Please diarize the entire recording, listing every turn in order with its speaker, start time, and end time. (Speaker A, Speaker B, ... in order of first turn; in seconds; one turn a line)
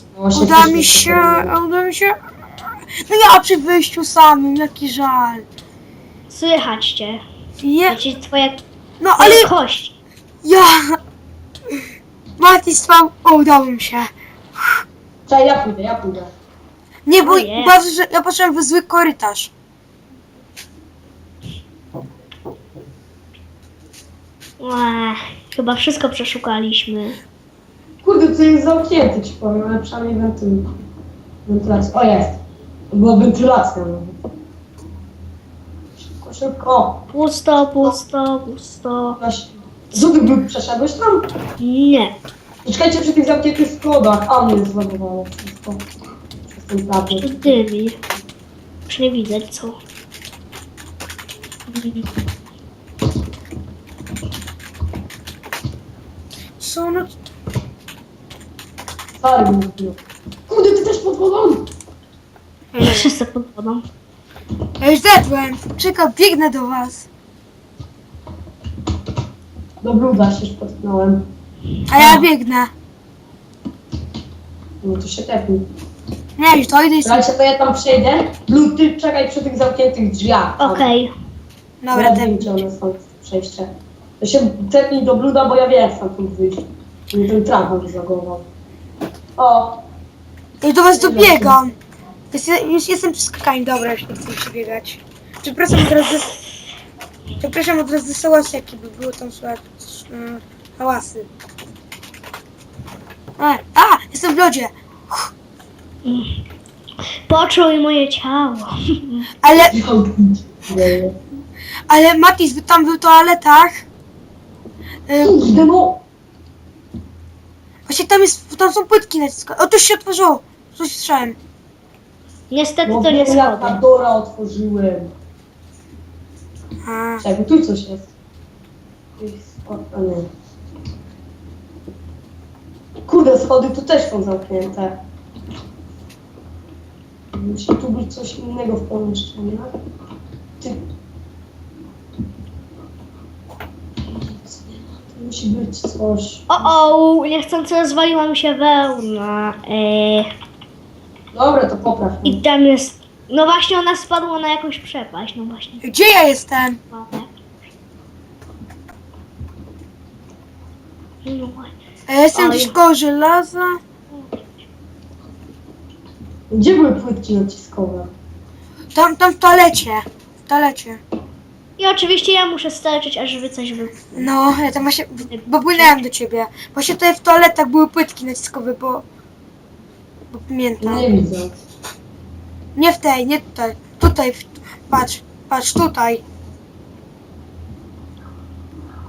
Speaker A: 0.1-1.5
Speaker B: 0.3-2.2
Speaker B: 3.0-5.4
Speaker C: 6.3-7.2
Speaker B: 7.6-8.0
Speaker C: 7.9-8.6
Speaker B: 9.0-9.5
Speaker C: 9.2-9.9
Speaker B: 10.4-11.0
Speaker B: 12.4-14.8
Speaker A: 15.3-16.3
Speaker B: 17.1-19.5
Speaker C: 17.1-17.7
Speaker C: 24.6-27.2
Speaker A: 28.0-30.8
Speaker A: 31.4-32.4
Speaker A: 32.9-34.2
Speaker A: 36.0-37.1
Speaker C: 37.1-39.2
Speaker A: 39.2-41.3
Speaker C: 41.6-42.2
Speaker A: 42.6-45.8
Speaker A: 46.5-47.6
Speaker C: 47.1-48.0
Speaker C: 48.9-49.8
Speaker C: 51.7-52.0
Speaker B: 56.6-57.1
Speaker A: 59.2-61.7
Speaker B: 62.7-63.1
Speaker C: 62.8-63.9
Speaker B: 64.8-67.0
Speaker A: 69.8-71.3
Speaker B: 71.9-72.7
Speaker A: 71.9-72.3
Speaker A: 74.8-75.7
Speaker B: 76.4-77.2
Speaker A: 77.0-80.9
Speaker C: 80.6-81.1
Speaker B: 81.8-82.5
Speaker A: 81.9-88.5
Speaker A: 89.4-89.8
Speaker B: 90.6-91.7
Speaker A: 90.9-91.6
Speaker B: 92.3-96.3
Speaker B: 97.4-101.3
Speaker B: 103.4-105.3
Speaker C: 106.0-106.4
Speaker C: 107.3-109.3
Speaker B: 109.4-109.8
Speaker A: 109.5-111.2
Speaker B: 111.9-113.8
Speaker B: 115.1-115.6
Speaker A: 115.2-116.0
Speaker B: 117.9-121.4
Speaker C: 122.5-123.8
Speaker A: 122.8-125.1
Speaker B: 126.8-127.2
Speaker A: 127.2-128.1
Speaker A: 129.2-130.3
Speaker A: 133.1-135.0
Speaker A: 137.3-139.7
Speaker A: 140.6-140.8
Speaker A: 144.1-146.7
Speaker C: 146.5-150.3
Speaker A: 151.3-152.4
Speaker C: 152.2-155.8
Speaker B: 155.8-156.8
Speaker C: 156.9-157.3
Speaker C: 161.2-161.7
Speaker B: 162.1-163.8
Speaker C: 162.3-162.8
Speaker C: 164.1-164.4
Speaker A: 166.5-168.1
Speaker B: 168.9-171.0
Speaker C: 171.8-174.3
Speaker B: 174.1-179.0
Speaker C: 175.3-175.9
Speaker B: 180.3-181.1
Speaker A: 180.8-181.6
Speaker B: 182.8-186.2